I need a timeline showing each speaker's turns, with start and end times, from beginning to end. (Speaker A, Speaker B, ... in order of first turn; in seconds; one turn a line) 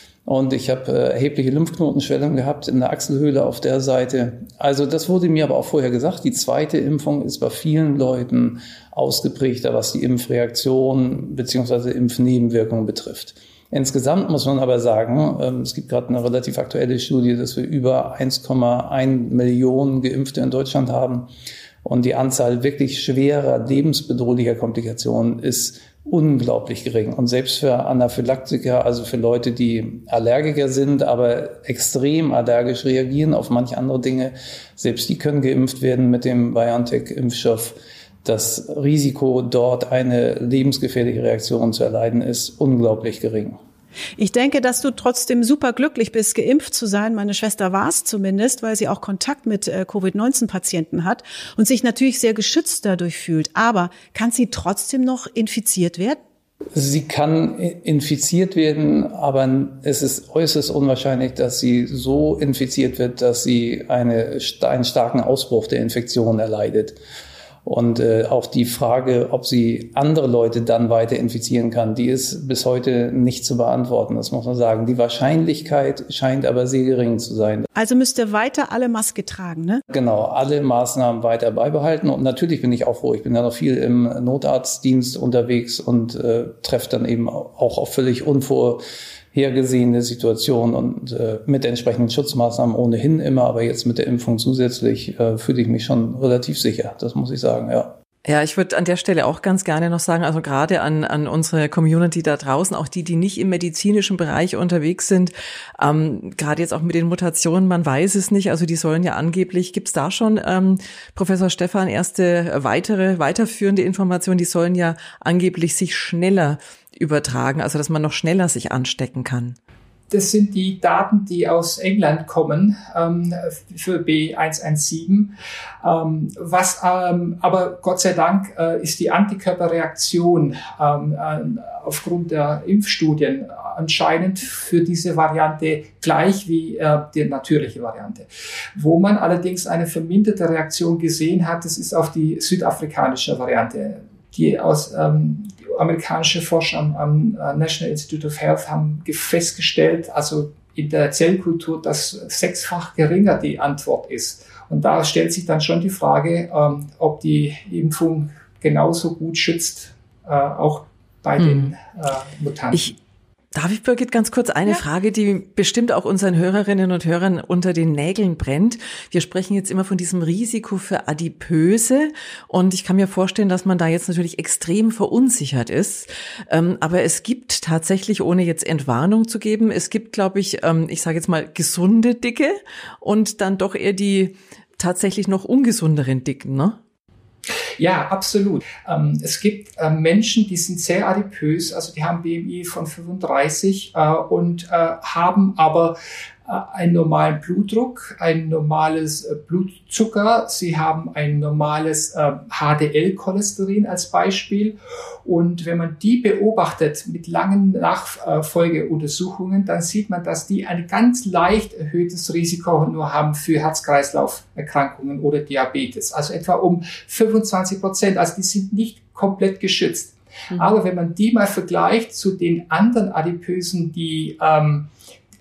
Speaker A: 0.2-21.3
Speaker A: 21.8-43.6
Speaker B: 44.2-56.2
Speaker A: 56.7-67.0
Speaker A: 67.6-77.7
Speaker B: 77.8-79.8
Speaker A: 79.9-88.8
Speaker A: 89.3-97.9
Speaker C: 98.2-119.6
Speaker D: 120.1-162.9
Speaker C: 161.4-161.7
Speaker C: 163.5-186.8
Speaker D: 187.8-224.9